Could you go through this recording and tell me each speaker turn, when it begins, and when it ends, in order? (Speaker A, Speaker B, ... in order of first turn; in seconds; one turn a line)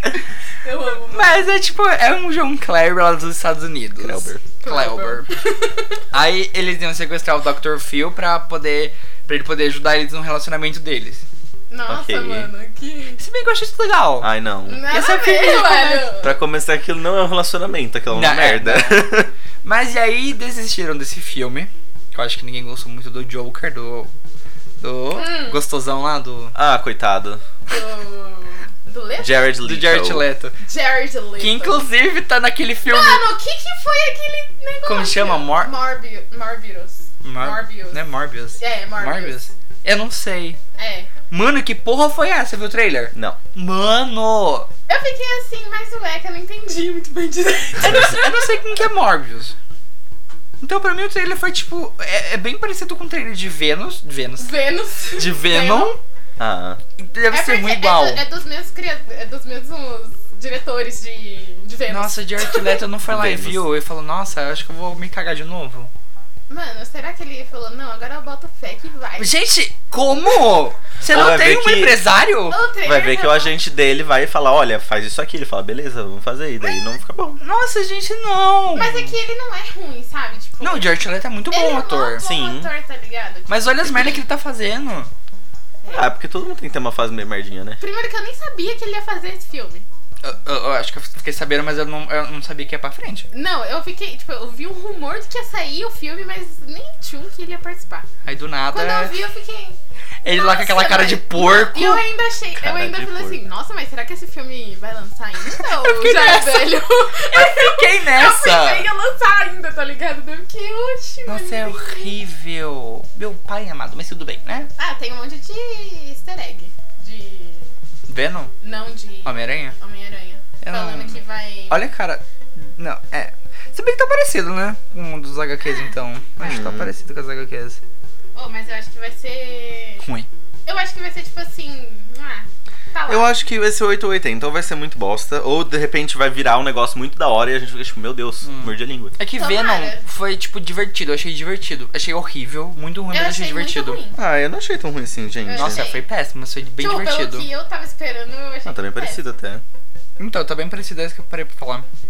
Speaker A: 0.6-1.5
Speaker B: 1.1-5.3
Speaker C: 4.0-4.4
Speaker A: 4.6-6.0
Speaker B: 6.1-11.2
Speaker A: 11.7-13.2
Speaker C: 11.9-12.5
Speaker B: 13.2-14.3
Speaker C: 14.2-14.8
Speaker A: 14.7-16.4
Speaker B: 14.9-16.1
Speaker C: 16.2-19.3
Speaker B: 18.1-19.1
Speaker B: 19.6-24.1
Speaker B: 24.8-26.5
Speaker A: 25.1-25.6
Speaker C: 26.5-27.4
Speaker A: 27.7-29.5
Speaker C: 29.2-30.2
Speaker B: 29.6-30.6
Speaker A: 30.6-31.8
Speaker B: 31.4-33.2
Speaker A: 32.9-38.0
Speaker B: 34.8-35.7
Speaker B: 37.2-40.6
Speaker A: 38.6-39.4
Speaker A: 40.8-41.1
Speaker B: 41.3-44.7
Speaker A: 44.9-48.4
Speaker B: 47.8-49.5
Speaker B: 50.6-54.5
Speaker A: 54.4-56.0
Speaker B: 55.1-56.0
Speaker C: 56.4-56.8
Speaker B: 57.0-58.2
Speaker A: 57.3-62.8
Speaker B: 61.9-65.9
Speaker C: 63.1-63.7
Speaker A: 66.5-69.3
Speaker B: 69.2-72.6
Speaker C: 71.1-72.0
Speaker A: 72.5-73.5
Speaker C: 72.8-77.4
Speaker A: 76.6-76.9
Speaker B: 77.4-79.1
Speaker A: 78.7-81.0
Speaker B: 80.6-82.2
Speaker A: 81.5-83.8
Speaker C: 82.2-82.7
Speaker B: 83.5-85.1
Speaker A: 85.8-86.1
Speaker C: 85.9-87.8
Speaker A: 87.8-89.8
Speaker B: 90.2-93.3
Speaker A: 93.3-98.1
Speaker B: 98.2-99.1
Speaker A: 98.7-112.2
Speaker B: 100.2-102.0
Speaker C: 102.6-103.4
Speaker B: 105.6-108.9
Speaker B: 111.2-114.7
Speaker A: 114.8-117.7
Speaker B: 118.1-118.5
Speaker A: 118.6-121.9
Speaker B: 119.2-119.7
Speaker B: 120.6-127.8
Speaker A: 125.6-125.9
Speaker C: 126.4-126.9
Speaker A: 128.3-130.0
Speaker B: 130.0-130.3
Speaker A: 130.7-133.3
Speaker C: 133.1-139.1
Speaker B: 138.4-144.0
Speaker A: 139.3-140.0
Speaker A: 143.1-144.2
Speaker C: 144.1-145.9
Speaker A: 145.4-146.0
Speaker B: 145.6-147.5
Speaker A: 146.8-149.2
Speaker C: 148.6-149.6
Speaker B: 150.2-151.8